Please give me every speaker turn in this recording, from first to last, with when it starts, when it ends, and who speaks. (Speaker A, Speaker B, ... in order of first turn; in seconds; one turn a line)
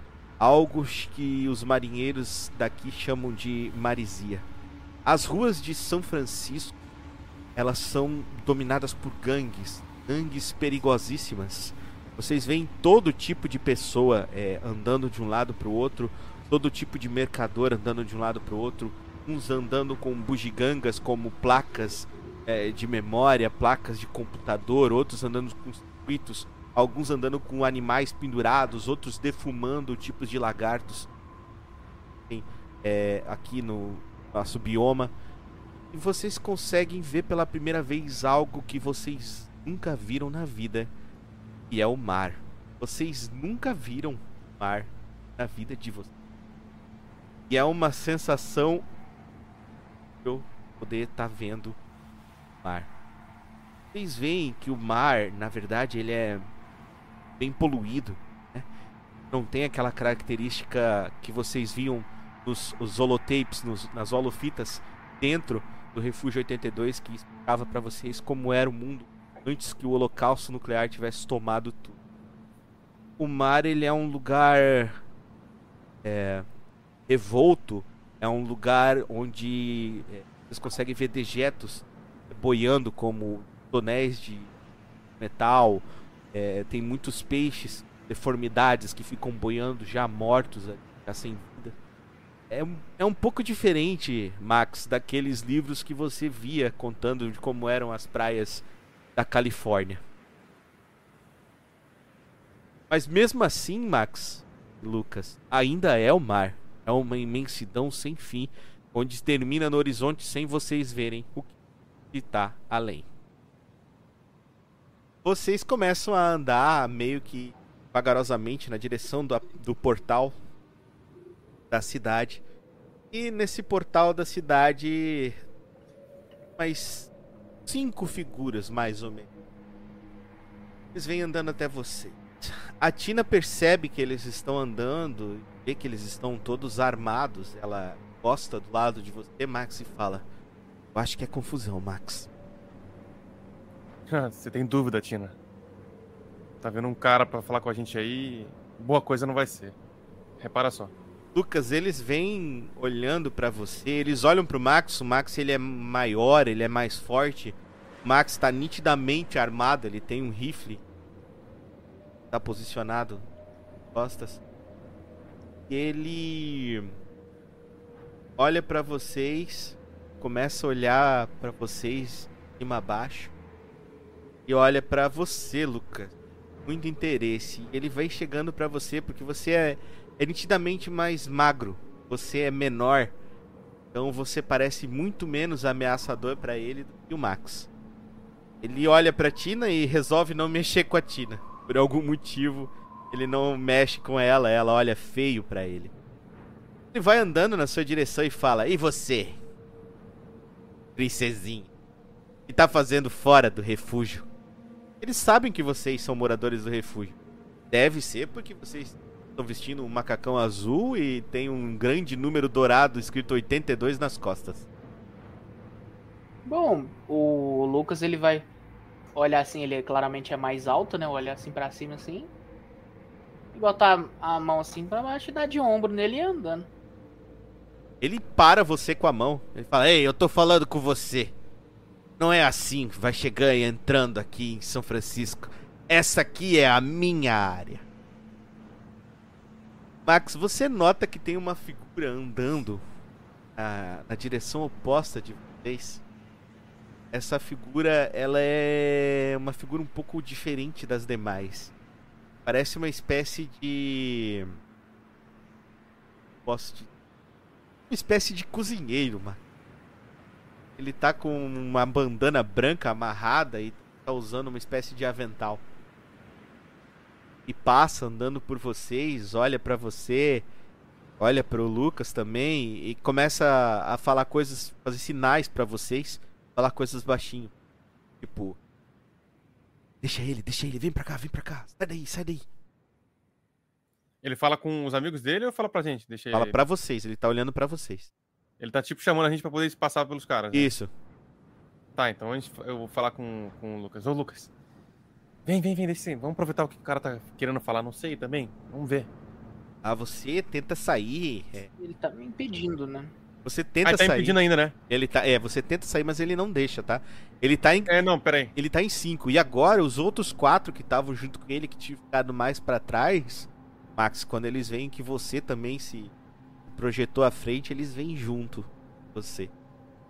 Speaker A: 0.4-4.5
Speaker A: 5.0-6.8
Speaker A: 7.6-31.1
Speaker A: 32.3-35.1
Speaker A: 35.9-40.9
Speaker A: 41.7-46.1
Speaker A: 47.5-48.9
Speaker A: 50.2-51.8
Speaker A: 52.6-52.9
Speaker A: 53.9-56.5
Speaker A: 57.4-58.7
Speaker A: 59.3-72.0
Speaker A: 73.2-75.0
Speaker A: 76.0-76.5
Speaker A: 77.1-84.5
Speaker A: 85.2-91.8
Speaker A: 92.5-98.7
Speaker A: 99.2-100.0
Speaker A: 102.9-111.5
Speaker A: 112.1-113.1
Speaker A: 115.2-120.4
Speaker A: 121.7-122.4
Speaker A: 123.1-125.4
Speaker A: 126.6-127.1
Speaker A: 127.7-129.3
Speaker A: 130.9-140.2
Speaker A: 140.9-142.3
Speaker B: 144.1-145.3
Speaker B: 146.6-149.8
Speaker B: 150.4-150.9
Speaker A: 151.3-160.8
Speaker A: 162.3-163.3
Speaker A: 163.9-164.4
Speaker A: 165.7-167.0
Speaker A: 168.4-173.3
Speaker A: 174.5-183.1
Speaker A: 183.9-187.7
Speaker A: 188.6-195.9
Speaker A: 196.9-199.4
Speaker A: 201.0-201.7
Speaker A: 202.5-204.3
Speaker A: 205.0-207.2
Speaker A: 207.7-214.7
Speaker C: 216.5-218.5
Speaker C: 219.2-222.3
Speaker C: 223.5-226.7
Speaker A: 228.0-231.3
Speaker A: 232.2-237.8
Speaker A: 240.1-242.8
Speaker A: 243.6-246.0
Speaker A: 247.1-251.7
Speaker A: 252.4-254.6
Speaker A: 256.4-256.9
Speaker A: 257.9-259.4
Speaker A: 260.8-265.6
Speaker A: 267.5-270.5
Speaker A: 271.2-277.5
Speaker A: 278.2-278.6
Speaker A: 280.0-282.4
Speaker B: 284.2-286.6
Speaker A: 286.3-288.1
Speaker B: 288.6-290.7
Speaker A: 290.5-290.9
Speaker B: 292.0-294.5
Speaker B: 295.5-299.1
Speaker A: 299.8-301.7
Speaker C: 301.8-303.1
Speaker A: 303.4-304.4
Speaker B: 303.8-304.8
Speaker A: 304.9-307.9
Speaker B: 307.9-308.5
Speaker A: 308.6-316.1
Speaker A: 316.7-319.5